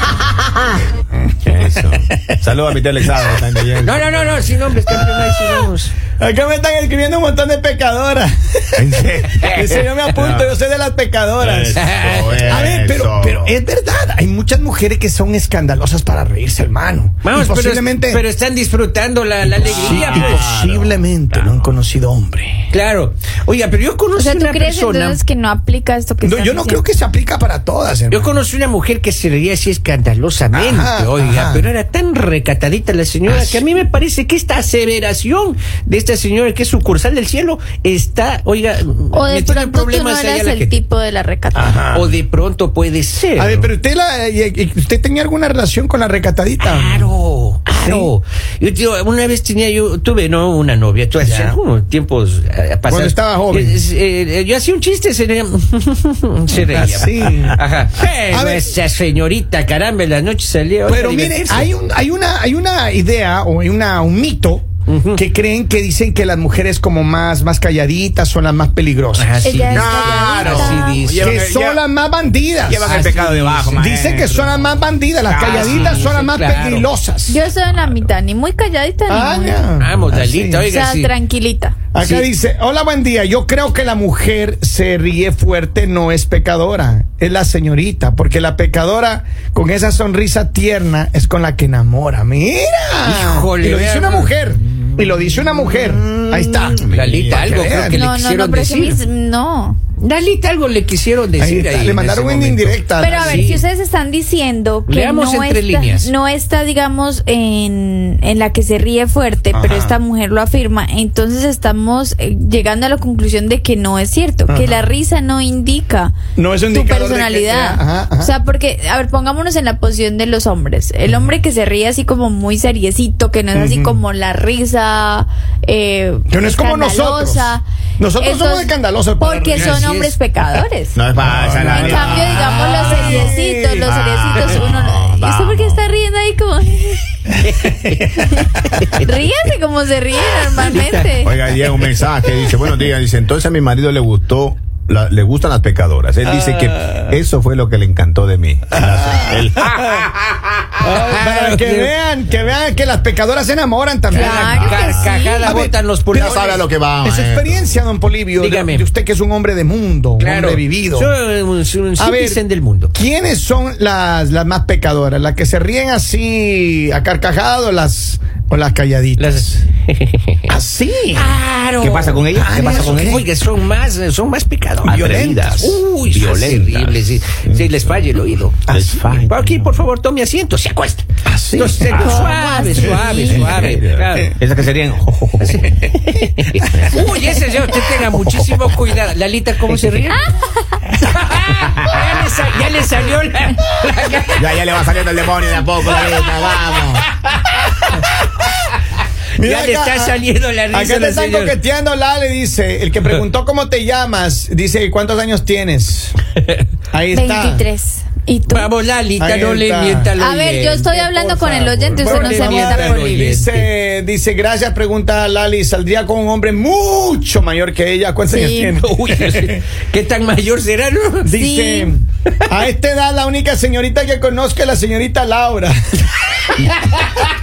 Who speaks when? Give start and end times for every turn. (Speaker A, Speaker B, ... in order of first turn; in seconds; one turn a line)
Speaker A: 1.4-4.7
Speaker B: 3.8-5.9
Speaker C: 5.1-18.2
Speaker A: 8.8-10.6
Speaker A: 11.4-13.6
Speaker B: 11.8-12.5
Speaker B: 17.2-20.4
Speaker C: 19.4-22.7
Speaker A: 19.6-21.7
Speaker B: 22.7-25.2
Speaker D: 24.2-26.8
Speaker C: 26.2-28.3
Speaker B: 28.1-40.8
Speaker C: 30.6-31.7
Speaker C: 33.3-33.6
Speaker D: 39.1-41.7
Speaker C: 41.5-42.2
Speaker B: 41.9-43.7
Speaker C: 43.4-47.1
Speaker B: 46.6-61.7
Speaker C: 47.7-48.1
Speaker C: 51.2-51.6
Speaker C: 52.9-53.8
Speaker C: 56.5-57.6
Speaker C: 58.3-58.7
Speaker C: 60.9-69.4
Speaker B: 64.9-65.2
Speaker B: 69.1-71.4
Speaker D: 69.4-71.0
Speaker A: 69.7-71.8
Speaker C: 70.7-73.1
Speaker A: 72.6-76.2
Speaker B: 72.8-73.9
Speaker C: 73.6-77.4
Speaker B: 75.4-76.9
Speaker D: 77.3-79.6
Speaker C: 79.1-80.7
Speaker B: 79.8-81.1
Speaker D: 80.6-81.8
Speaker C: 81.9-98.0
Speaker B: 82.0-82.3
Speaker B: 93.0-94.3
Speaker A: 95.5-97.9
Speaker B: 96.9-99.0
Speaker D: 97.9-99.8
Speaker B: 100.0-103.6
Speaker C: 101.4-103.6
Speaker D: 103.0-116.1
Speaker B: 104.9-106.1
Speaker C: 109.5-110.0
Speaker C: 114.5-115.0
Speaker C: 116.4-118.3
Speaker D: 116.7-127.6
Speaker C: 123.5-124.0
Speaker C: 126.3-129.8
Speaker D: 128.2-131.0
Speaker B: 129.5-130.2
Speaker A: 131.0-136.0
Speaker C: 131.2-133.4
Speaker D: 131.7-137.1
Speaker B: 132.7-133.0
Speaker B: 134.4-134.6
Speaker B: 137.4-138.9
Speaker D: 138.1-141.3
Speaker B: 140.6-141.1
Speaker A: 141.2-151.0
Speaker C: 146.3-147.1
Speaker C: 148.7-150.1
Speaker C: 150.8-161.1
Speaker B: 151.0-151.9
Speaker D: 154.1-155.6
Speaker B: 154.1-156.6
Speaker A: 154.5-155.2
Speaker A: 156.1-157.8
Speaker B: 158.4-158.9
Speaker B: 160.2-162.9
Speaker C: 162.0-169.5
Speaker B: 169.2-170.4
Speaker C: 170.5-171.4
Speaker B: 171.1-178.6
Speaker A: 171.8-173.2
Speaker C: 172.3-173.2
Speaker C: 174.8-175.8
Speaker A: 175.0-178.0
Speaker C: 178.7-179.1
Speaker A: 178.7-179.8
Speaker B: 179.2-184.3
Speaker C: 181.2-182.1
Speaker A: 181.9-182.3
Speaker D: 181.9-183.8
Speaker A: 183.1-185.6
Speaker B: 185.4-190.2
Speaker D: 190.1-190.8
Speaker B: 191.0-194.5
Speaker A: 194.4-197.1
Speaker B: 195.8-198.0
Speaker C: 199.4-206.2
Speaker B: 199.4-201.6
Speaker C: 206.9-207.6
Speaker D: 207.1-208.7
Speaker B: 208.5-213.7
Speaker C: 209.2-210.1
Speaker D: 210.2-213.3
Speaker C: 211.9-219.6
Speaker D: 218.3-218.8
Speaker B: 218.8-221.3
Speaker C: 221.2-225.8
Speaker D: 221.3-221.9